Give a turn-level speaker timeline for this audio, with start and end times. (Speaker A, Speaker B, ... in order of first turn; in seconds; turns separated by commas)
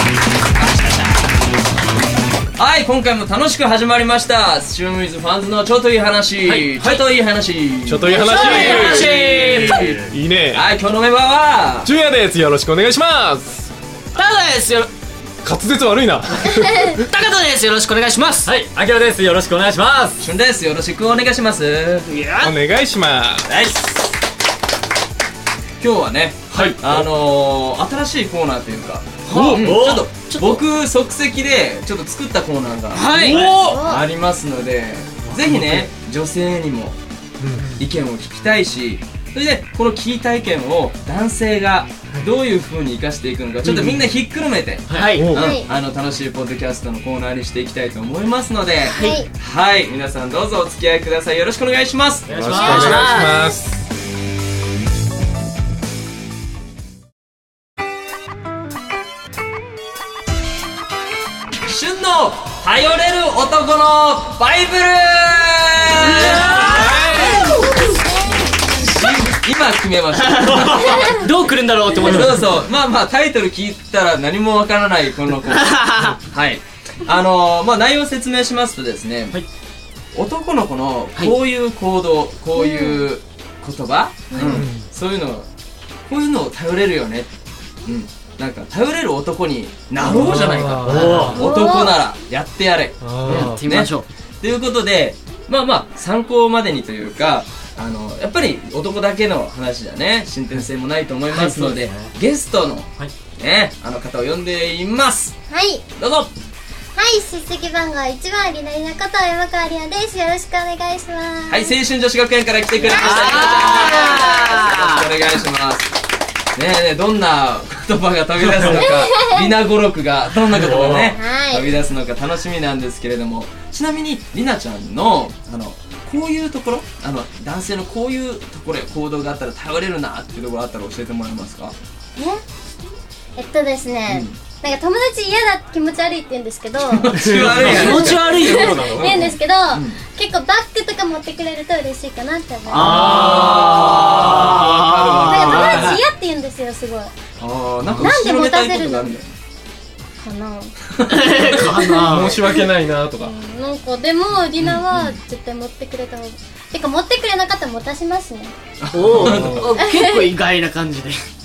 Speaker A: 0.6-1.2, Speaker A: 2.6-8.2, Speaker B: 6.5-7.0, Speaker B: 7.9-10.6, Speaker C: 8.0-8.9, Speaker D: 8.2-9.9, Speaker A: 8.9-10.0, Speaker E: 9.8-10.1, Speaker A: 10.5-11.9, Speaker B: 11.8-13.7, Speaker D: 14.2-14.9, Speaker B: 15.4-17.0, Speaker C: 16.6-16.9, Speaker D: 17.0-18.5, Speaker E: 18.4-20.2, Speaker A: 20.2-22.1, Speaker D: 22.1-22.6, Speaker B: 22.4-23.5, Speaker A: 23.5-24.1, Speaker A: 25.8-37.0, Speaker B: 26.5-27.1, Speaker D: 29.3-30.6, Speaker B: 29.3-29.7, Speaker E: 29.6-30.0, Speaker D: 32.9-33.7, Speaker C: 33.5-34.0, Speaker E: 35.3-35.9, Speaker B: 37.4-37.7, Speaker E: 37.5-37.9, Speaker A: 37.8-52.9, Speaker E: 43.7-43.9, Speaker E: 44.9-45.2, Speaker D: 44.9-45.3, Speaker B: 45.2-45.5, Speaker C: 45.4-45.7, Speaker C: 48.9-49.3, Speaker D: 48.9-49.2, Speaker E: 52.2-52.6, Speaker B: 52.3-53.8, Speaker D: 52.5-53.5, Speaker A: 61.6-67.6, Speaker D: 66.0-67.7, Speaker A: 68.8-71.3, Speaker D: 70.2-72.5, Speaker A: 72.0-79.4, Speaker D: 75.6-76.2, Speaker A: 80.1-85.5, Speaker C: 82.6-83.0, Speaker D: 84.3-84.7, Speaker B: 84.4-84.9, Speaker A: 86.1-87.3, Speaker A: 87.8-105.4, Speaker B: 90.0-91.4, Speaker D: 90.8-91.4, Speaker E: 91.0-91.3, Speaker C: 91.3-92.0, Speaker B: 93.0-93.6, Speaker D: 93.2-94.1, Speaker D: 101.3-101.9, Speaker C: 105.5-105.8, Speaker A: 106.0-106.3, Speaker C: 107.0-111.8, Speaker A: 111.5-116.0, Speaker C: 112.8-114.8, Speaker D: 112.9-115.0, Speaker A: 116.5-131.8, Speaker C: 118.6-119.5, Speaker E: 120.5-121.1, Speaker C: 121.0-121.7, Speaker C: 132.2-132.4, Speaker C: 133.4-143.0, Speaker A: 134.1-134.4, Speaker A: 136.9-140.0, Speaker B: 137.2-137.6, Speaker D: 137.4-139.2, Speaker D: 142.7-146.0, Speaker A: 142.8-146.0, Speaker B: 142.9-143.6, Speaker C: 145.2-147.1, Speaker A: 147.4-149.3, Speaker C: 148.0-149.1, Speaker C: 150.2-150.8, Speaker D: 151.1-152.3, Speaker B: 152.0-153.3, Speaker C: 152.2-152.6, Speaker C: 153.2-158.6, Speaker A: 154.6-155.2, Speaker A: 158.8-159.7, Speaker D: 158.9-161.2, Speaker B: 159.1-159.7, Speaker C: 159.8-160.3